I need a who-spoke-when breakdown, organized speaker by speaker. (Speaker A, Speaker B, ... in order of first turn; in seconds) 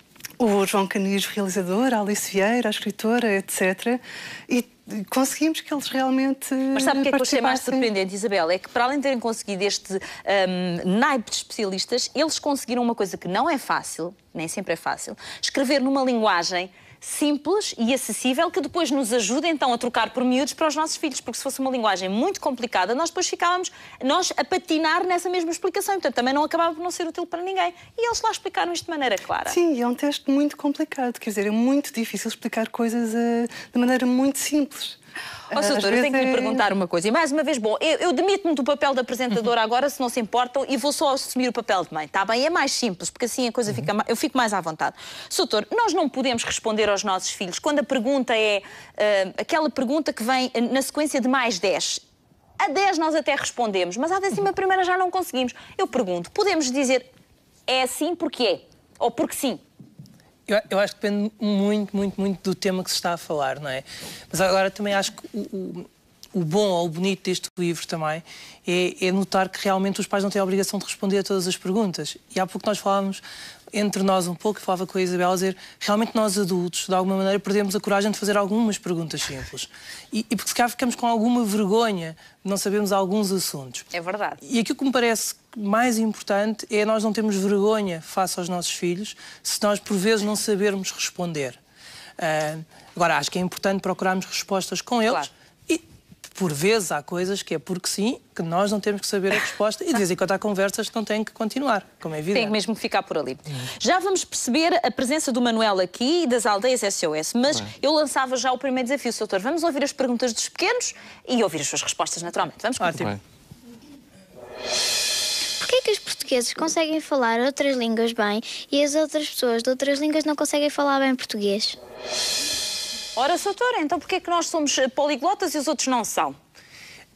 Speaker A: 0.4-7.9, 29.5-35.0, 35.5-36.6
Speaker B: 6.7-29.6, 35.5-52.0, 52.6-57.0, 57.7-59.6, 83.9-84.4, 102.3-113.1, 123.2-126.4
Speaker C: 60.5-83.9, 84.4-91.6, 92.2-95.8, 96.3-102.6, 112.8-113.1
Speaker D: 115.6-121.8